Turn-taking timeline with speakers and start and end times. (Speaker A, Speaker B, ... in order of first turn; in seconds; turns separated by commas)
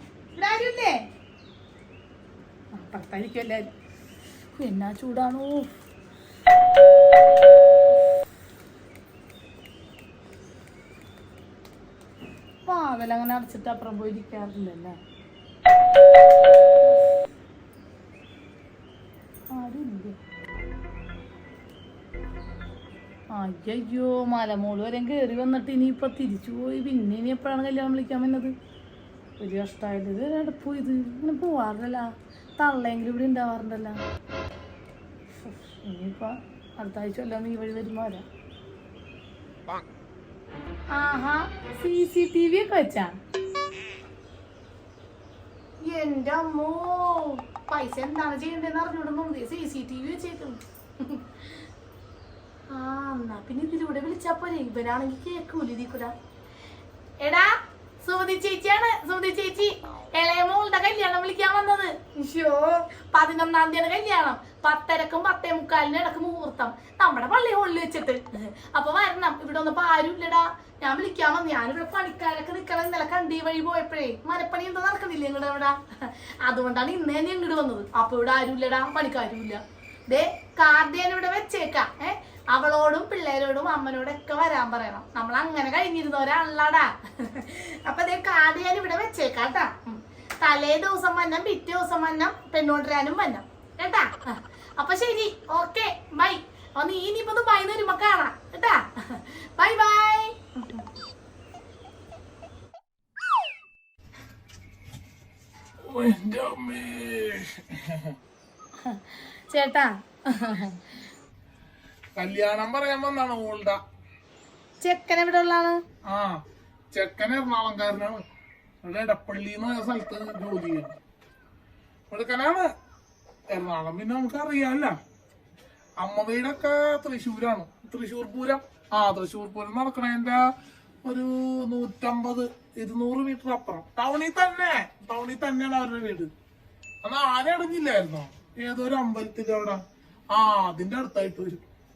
Speaker A: 0.3-1.0, Speaker A: 2.7-3.7, Speaker A: 4.6-5.7, Speaker A: 12.7-15.0, Speaker A: 19.5-20.2, Speaker A: 23.3-28.5, Speaker A: 29.4-32.1, Speaker A: 32.6-34.0, Speaker A: 35.5-38.2, Speaker A: 40.9-43.1, Speaker A: 45.8-51.3, Speaker A: 52.7-56.1, Speaker A: 57.2-100.8, Speaker B: 105.9-108.2, Speaker A: 108.8-110.8, Speaker B: 112.2-113.8, Speaker A: 114.8-115.8, Speaker B: 116.1-116.4, Speaker B: 116.9-118.2, Speaker B: 118.8-121.0, Speaker B: 122.1-122.7, Speaker B: 123.5-124.9, Speaker B: 126.0-130.4, Speaker B: 131.1-136.3, Speaker B: 137.0-139.8, Speaker B: 140.3-141.6